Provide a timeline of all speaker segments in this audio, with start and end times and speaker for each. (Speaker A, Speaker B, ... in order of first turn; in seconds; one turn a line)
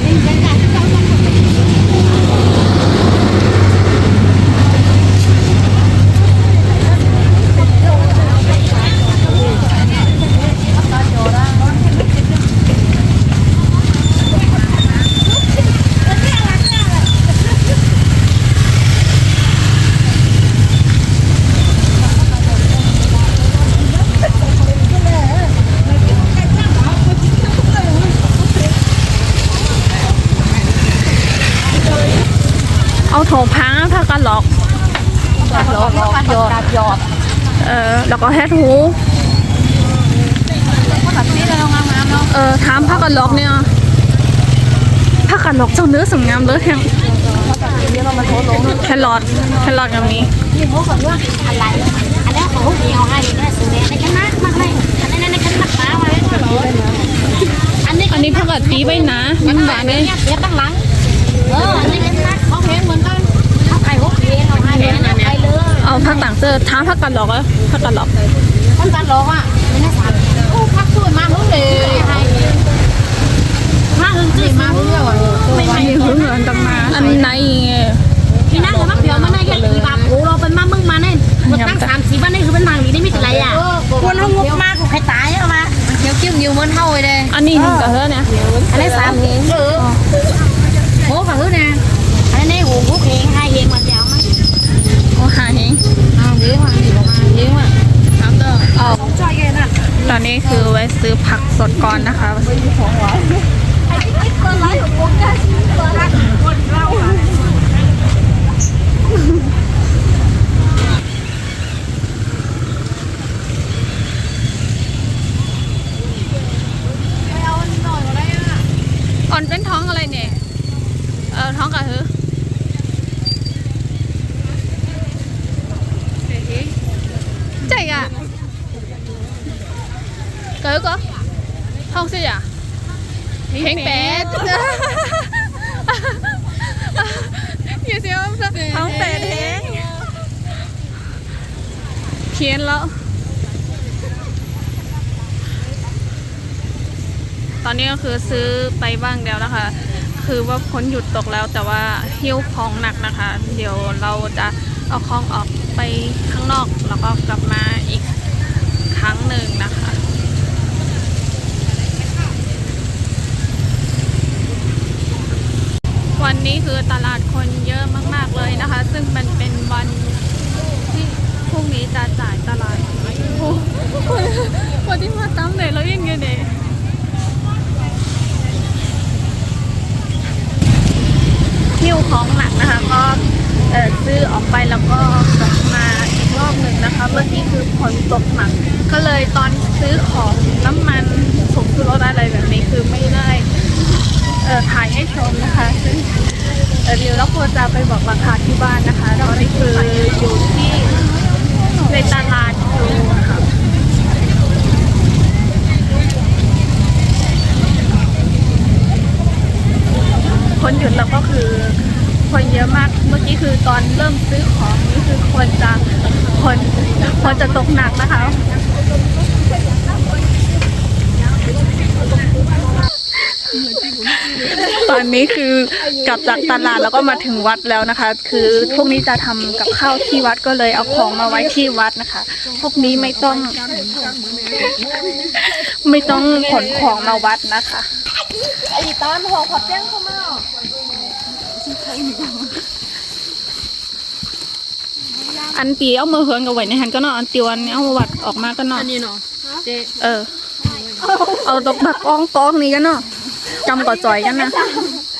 Speaker A: 0.2-0.8
Speaker B: 33.1-34.6
Speaker B: 35.4-36.6
Speaker A: 35.5-37.1
Speaker B: 37.6-39.0
Speaker A: 40.7-42.3
Speaker B: 42.3-43.7
Speaker A: 43.0-43.4
Speaker B: 45.2-46.9
Speaker C: 47.3-50.0
Speaker A: 47.5-48.6
Speaker B: 48.8-50.3
Speaker A: 50.5-56.9
Speaker C: 56.4-57.1
Speaker A: 57.8-60.8
Speaker B: 58.1-60.1
Speaker A: 61.5-66.3
Speaker C: 61.5-62.0
Speaker C: 64.7-65.3
Speaker B: 65.8-68.1
Speaker A: 68.8-72.5
Speaker A: 73.9-77.3
Speaker C: 74.3-76.2
Speaker B: 75.7-78.0
Speaker C: 76.8-77.2
Speaker A: 78.5-87.9
Speaker C: 78.6-80.1
Speaker B: 81.5-81.9
Speaker C: 83.1-84.6
Speaker B: 87.3-88.3
Speaker C: 87.6-89.6
Speaker A: 88.7-89.9
Speaker A: 91.0-94.3
Speaker B: 95.1-95.8
Speaker A: 96.1-98.3
Speaker B: 98.7-99.1
Speaker A: 98.9-99.7
Speaker B: 100.0-102.7
Speaker C: 102.7-103.2
Speaker A: 103.9-107.3
Speaker A: 117.3-118.6
Speaker B: 119.3-120.4
Speaker B: 121.3-122.1
Speaker B: 127.6-128.1
Speaker B: 130.6-131.0
Speaker B: 131.9-132.5
Speaker C: 133.5-135.0
Speaker B: 133.6-135.3
Speaker B: 136.9-139.9
Speaker C: 138.4-139.7
Speaker B: 142.3-142.9
Speaker B: 147.6-158.1
Speaker B: 158.9-160.0
Speaker B: 166.2-170.2
Speaker B: 170.9-176.5
Speaker B: 181.8-193.5
Speaker B: 194.4-200.9
Speaker B: 201.8-203.4
Speaker B: 210.4-218.4
Speaker C: 223.8-224.8
Speaker B: 224.0-233.6
Speaker C: 233.5-234.7
Speaker B: 234.5-237.9
Speaker C: 236.1-237.0
Speaker C: 238.6-240.4
Speaker C: 241.7-242.6
Speaker B: 245.5-248.9
Speaker C: 248.7-249.2
Speaker B: 250.0-250.3
Speaker C: 250.8-251.0
Speaker B: 251.0-254.7